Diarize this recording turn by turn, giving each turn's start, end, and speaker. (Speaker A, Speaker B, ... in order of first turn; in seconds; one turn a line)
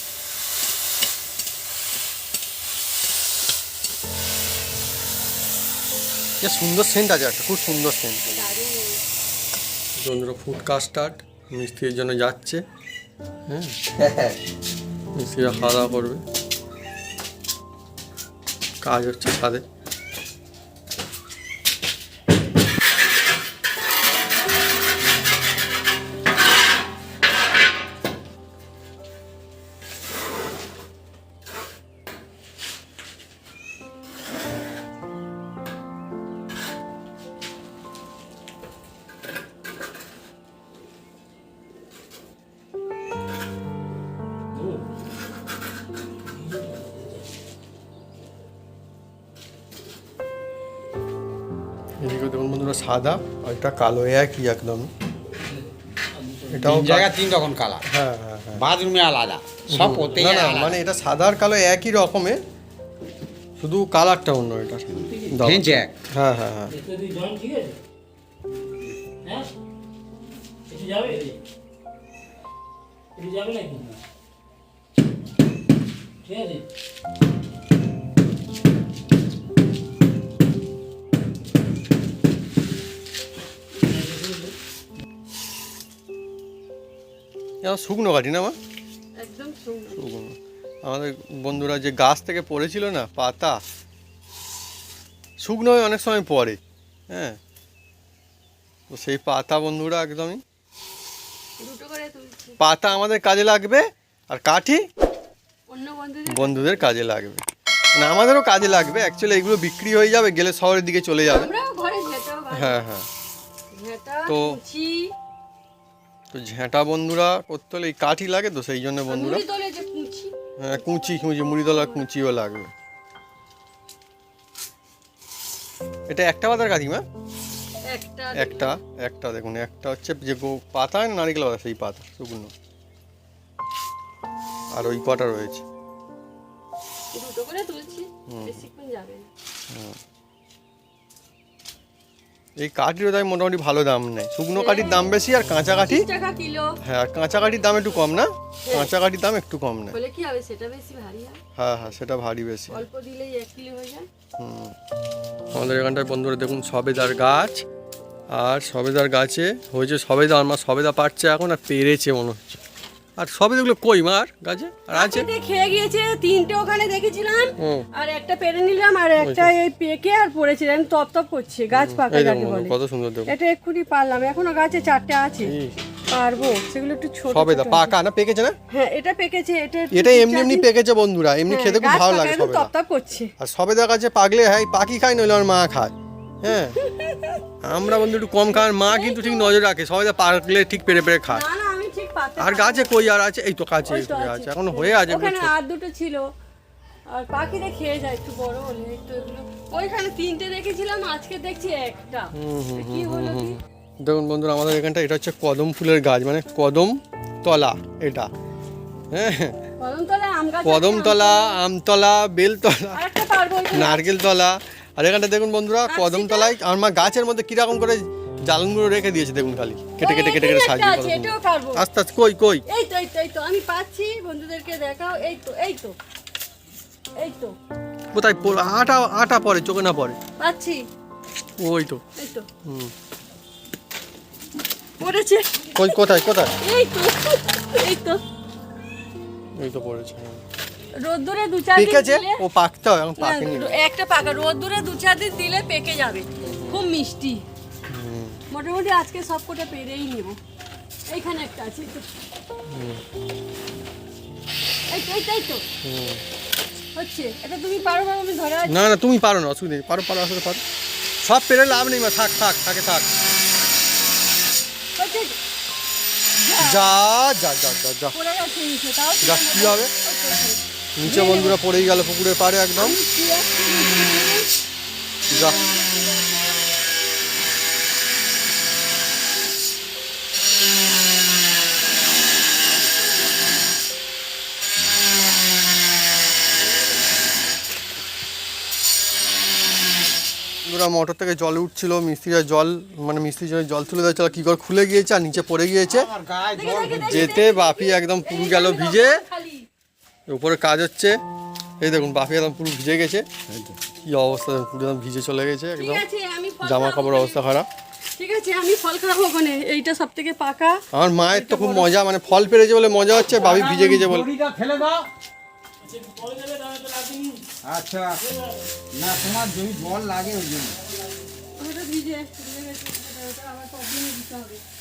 Speaker A: 6.4-8.2
Speaker B: 8.2-9.0
Speaker A: 10.0-12.6
Speaker A: 13.5-13.7
Speaker C: 14.1-14.3
Speaker A: 15.1-16.2
Speaker A: 18.8-19.6
Speaker D: 46.5-47.2
Speaker A: 52.0-54.9
Speaker D: 56.2-56.6
Speaker A: 56.5-57.1
Speaker C: 56.6-57.8
Speaker A: 57.9-58.6
Speaker C: 58.5-60.8
Speaker A: 59.7-62.4
Speaker A: 63.6-66.8
Speaker D: 65.0-65.3
Speaker C: 65.4-65.9
Speaker D: 66.7-67.8
Speaker D: 70.7-71.4
Speaker D: 73.2-73.9
Speaker D: 76.2-76.6
Speaker D: 83.8-84.5
Speaker A: 87.6-88.6
Speaker B: 89.2-90.0
Speaker A: 89.9-93.6
Speaker A: 95.4-96.6
Speaker A: 97.1-97.4
Speaker A: 98.9-100.4
Speaker B: 101.6-102.6
Speaker A: 102.6-104.8
Speaker B: 105.7-106.9
Speaker A: 106.3-111.5
Speaker B: 111.2-112.8
Speaker A: 112.5-113.1
Speaker B: 113.7-115.1
Speaker A: 114.3-114.6
Speaker A: 116.3-119.4
Speaker B: 119.1-122.1
Speaker A: 120.6-122.7
Speaker A: 126.1-127.0
Speaker B: 127.9-128.8
Speaker A: 128.3-132.5
Speaker A: 134.7-135.6
Speaker B: 137.1-139.3
Speaker A: 138.3-138.6
Speaker A: 139.7-140.0
Speaker A: 142.6-146.1
Speaker B: 144.5-145.1
Speaker B: 145.8-146.7
Speaker A: 146.8-150.0
Speaker B: 147.3-148.9
Speaker B: 149.9-151.4
Speaker A: 151.6-152.8
Speaker B: 152.7-154.1
Speaker A: 154.4-154.7
Speaker A: 155.5-157.6
Speaker A: 158.3-162.6
Speaker A: 163.2-165.3
Speaker B: 164.9-172.7
Speaker A: 167.6-167.9
Speaker A: 169.2-169.5
Speaker A: 171.7-173.3
Speaker B: 173.3-175.5
Speaker A: 175.4-175.8
Speaker B: 176.1-178.0
Speaker A: 177.3-178.6
Speaker B: 178.7-180.7
Speaker A: 179.9-182.7
Speaker B: 181.5-183.3
Speaker A: 183.4-186.8
Speaker B: 186.8-187.4
Speaker A: 187.6-191.4
Speaker B: 188.5-189.6
Speaker B: 191.3-193.1
Speaker A: 192.4-195.5
Speaker B: 193.9-196.2
Speaker B: 197.1-203.6
Speaker A: 202.3-208.3
Speaker A: 209.1-209.6
Speaker B: 209.8-211.5
Speaker A: 210.6-213.0
Speaker B: 212.9-214.1
Speaker A: 213.7-222.6
Speaker B: 215.9-216.6
Speaker B: 220.0-221.8
Speaker B: 222.7-225.9
Speaker B: 227.2-227.5
Speaker A: 228.1-230.2
Speaker B: 230.4-230.8
Speaker A: 231.6-232.0
Speaker B: 232.2-232.5
Speaker A: 232.6-232.9
Speaker B: 235.0-238.2
Speaker A: 235.7-236.5
Speaker A: 239.6-240.4
Speaker B: 241.0-242.4
Speaker A: 241.8-243.7
Speaker B: 243.2-247.4
Speaker A: 246.4-246.8
Speaker A: 247.9-248.4
Speaker B: 248.5-250.4
Speaker B: 251.1-252.1
Speaker A: 252.7-253.0
Speaker B: 254.9-255.6
Speaker A: 255.8-256.2
Speaker B: 256.9-258.8
Speaker A: 258.6-260.6
Speaker A: 261.2-263.1
Speaker B: 265.0-265.4
Speaker B: 266.4-266.9
Speaker A: 266.6-268.1
Speaker B: 268.1-271.6
Speaker A: 269.2-269.9
Speaker A: 271.0-273.0
Speaker B: 272.8-274.5
Speaker A: 275.3-275.6
Speaker B: 275.3-276.8
Speaker A: 290.6-296.1
Speaker C: 295.9-297.4
Speaker B: 296.5-299.7
Speaker A: 297.1-299.2
Speaker A: 300.3-301.2
Speaker A: 301.8-303.3
Speaker A: 304.0-306.0
Speaker B: 305.8-307.4
Speaker A: 306.6-307.7
Speaker B: 308.1-311.9
Speaker A: 310.9-314.3
Speaker C: 313.3-315.1
Speaker D: 315.8-317.5
Speaker C: 317.6-318.2
Speaker D: 318.2-318.6
Speaker C: 318.9-320.8
Speaker B: 321.6-324.6